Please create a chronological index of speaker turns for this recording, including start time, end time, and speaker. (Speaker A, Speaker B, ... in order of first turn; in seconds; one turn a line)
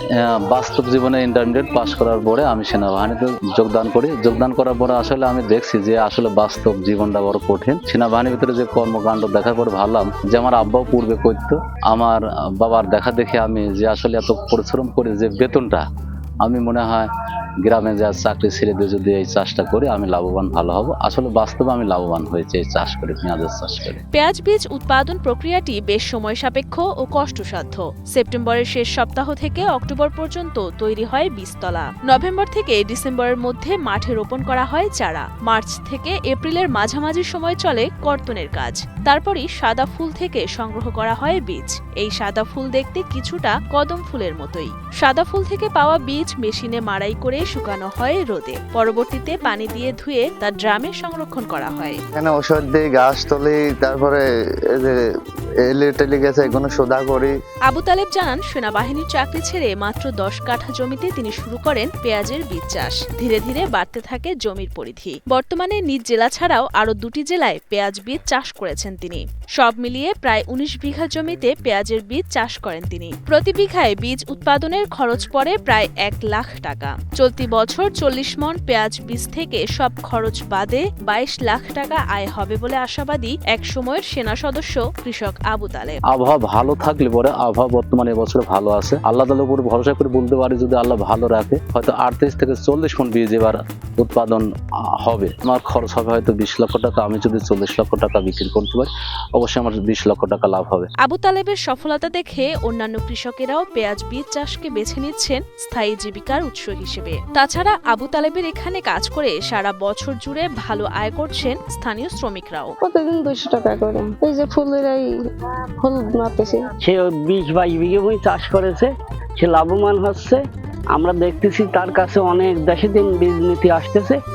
Speaker A: 0.5-15.8
Speaker A: 16.4-17.1
Speaker A: 17.6-24.0
Speaker B: 24.1-52.0
Speaker C: 52.2-54.2
Speaker C: 55.6-57.3
Speaker B: 57.7-86.0
Speaker A: 86.1-94.4
Speaker A: 95.0-100.9
Speaker B: 101.0-112.7
Speaker D: 112.9-115.0
Speaker D: 115.8-116.5
Speaker E: 116.8-120.4
Speaker E: 121.0-124.2